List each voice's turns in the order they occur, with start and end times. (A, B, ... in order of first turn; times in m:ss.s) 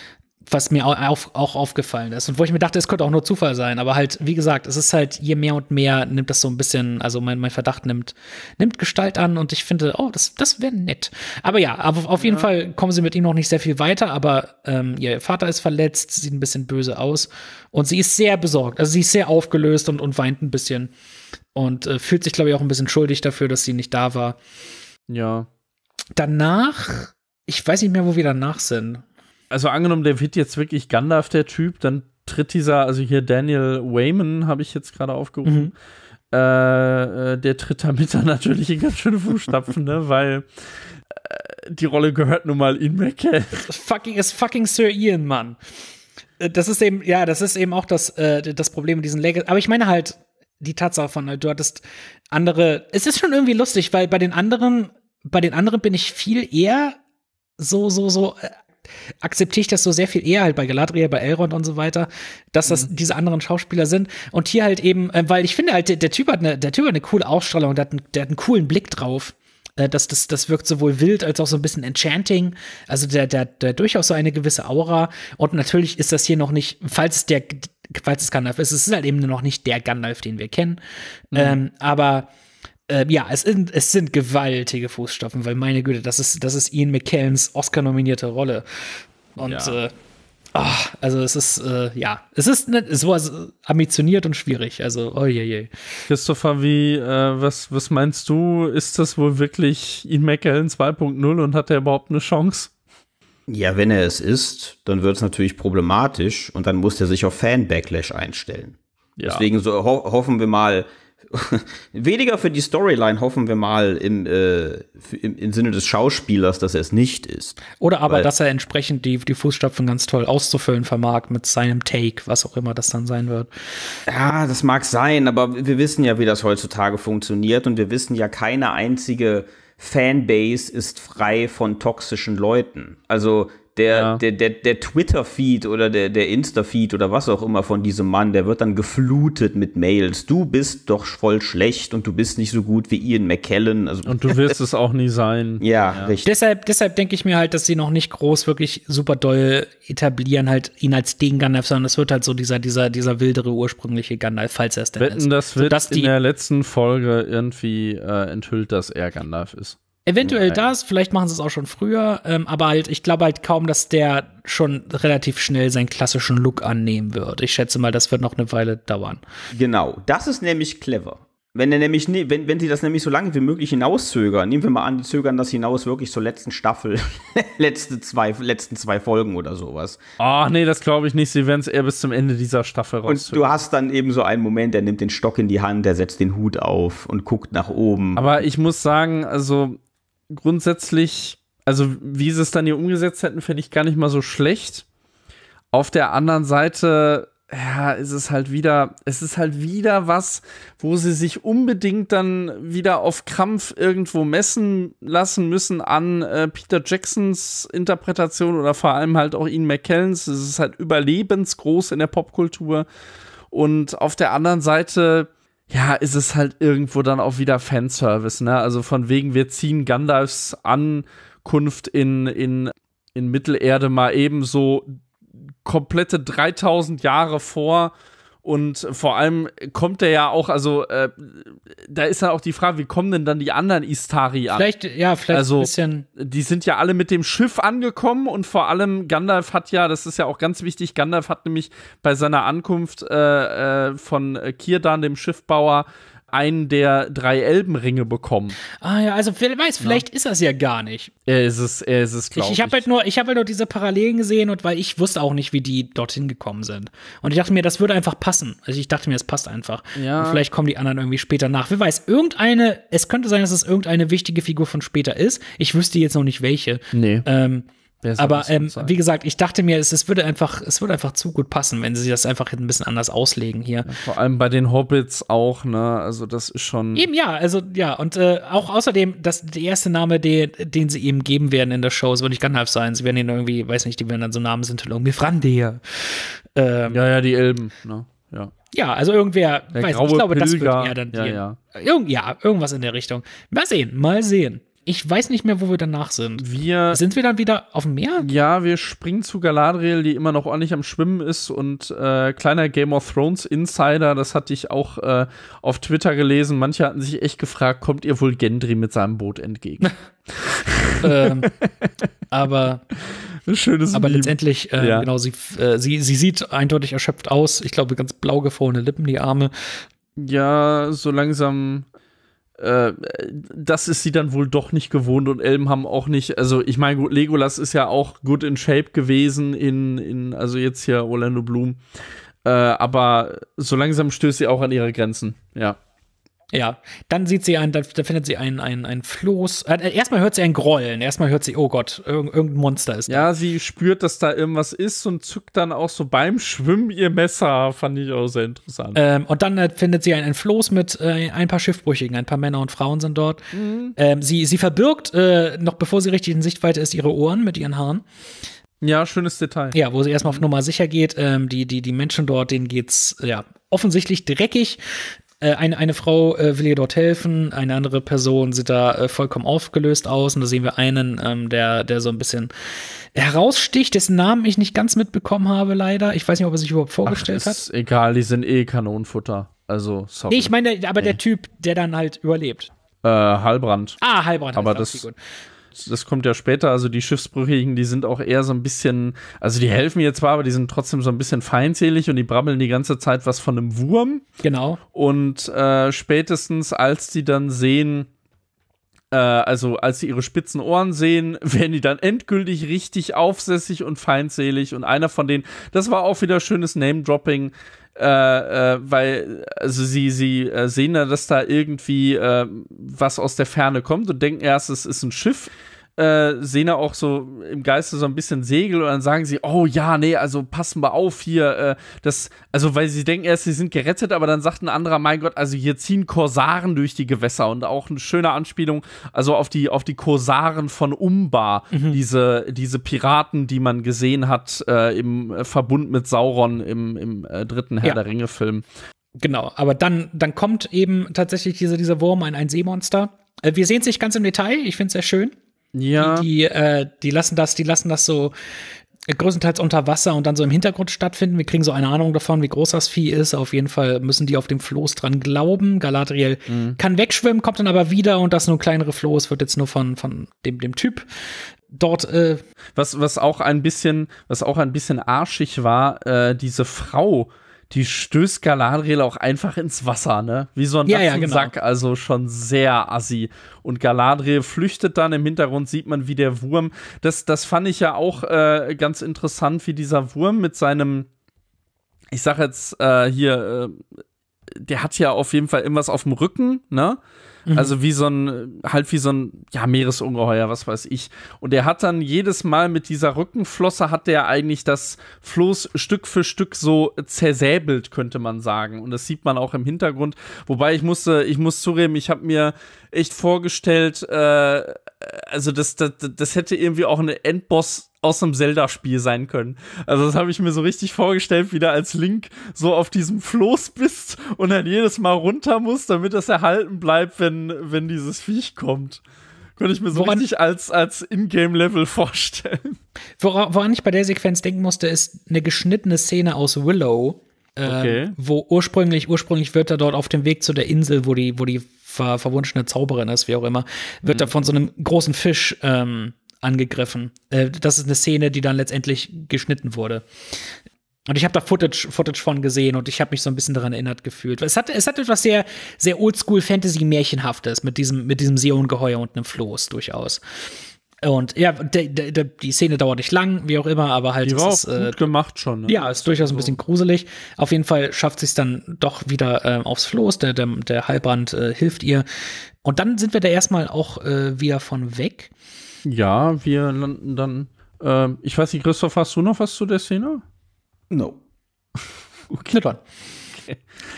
0:00.5-0:20.9 A
0:12.2-0:12.5 B
0:21.6-0:24.4 A
0:25.1-0:25.5 B
0:26.2-0:29.0 A
0:29.5-0:35.7 B
0:35.4-0:35.7 A
0:36.3-0:40.5 B
0:41.2-0:43.7 B
0:43.7-0:45.6 A
0:46.4-0:57.0 A
0:57.6-0:58.5 A
0:59.2-1:20.8 A
1:21.3-1:22.3 A
1:21.3-1:21.6 B
1:22.9-1:29.9 A
1:29.4-1:29.8 B
1:30.6-1:35.7 A
1:36.1-1:42.7 B
1:43.5-1:58.3 C
1:49.2-1:49.4 B
1:57.8-2:03.5 A
2:04.1-2:24.5 C
2:13.9-2:14.2 B
2:24.1-2:26.1 B
2:25.6-2:26.3 C
2:26.2-2:36.1 A
2:35.0-2:39.8 B
2:40.1-2:49.2 A
2:40.2-2:40.6 C
2:49.5-3:00.0 C
3:00.2-3:03.4 B
3:03.1-3:08.3 C
3:08.2-3:09.8 B
3:10.3-3:14.8 B
3:15.7-3:32.9 B
3:33.5-3:45.0 B
3:45.6-3:47.9 B
3:48.4-3:54.7 B
3:54.5-3:56.1 A
3:55.3-4:08.6 B
4:08.8-4:11.1 A
4:11.3-4:12.8 B
4:12.4-4:27.7 A
4:20.0-4:20.4 B
4:26.9-4:27.2 B
4:28.0-4:29.0 B
4:28.2-4:33.9 A
4:33.9-4:37.1 B
4:37.0-4:47.0 A
4:46.9-4:48.5 B
4:48.7-4:58.3 A
4:49.8-4:51.6 B
4:56.4-4:57.0 B
4:58.2-5:11.9 B
5:11.0-5:11.5 A
5:12.3-5:12.8 A
5:12.9-5:15.1 B
5:13.9-5:19.8 A
5:20.2-5:21.9 B
5:22.6-5:31.8 B
5:32.4-5:35.8 B
5:36.5-5:43.2 A
5:43.1-5:49.0 B
5:49.0-5:53.4 A
5:53.5-5:54.0 B
5:54.0-5:58.0 A
5:58.8-6:00.4 B
5:59.7-6:04.8 A
6:05.4-6:12.5 A
6:13.2-6:17.6 A
6:17.1-6:21.2 B
6:20.3-6:22.7 A
6:23.0-6:24.0 B
6:24.0-6:25.2 A
6:24.6-6:25.0 B
6:25.8-6:34.3 B
6:34.4-6:34.8 A
6:34.9-6:38.1 B
6:39.1-7:18.6 B
7:11.7-7:12.0 A
7:19.2-7:25.4 A
7:25.7-7:26.3 B
7:26.0-7:28.3 A
7:29.1-7:41.1 A
7:36.5-7:36.8 B
7:41.7-7:42.4 A
7:42.8-8:01.1 B
7:50.9-7:51.5 A
8:02.1-8:03.8 B
8:04.6-8:07.0 B
8:07.5-8:07.7 A
8:07.6-8:39.0 B
8:39.6-8:42.8 B
8:39.9-8:40.3 A
8:43.2-9:00.1 A
8:47.7-8:48.2 B
9:01.1-9:10.2 A
9:11.0-9:15.0 A
9:14.2-9:16.6 B
9:15.7-9:22.0 A
9:22.6-9:25.3 A
9:25.8-9:30.2 B
9:30.9-9:31.2 C
9:32.3-9:32.6 B
9:32.5-9:32.8 A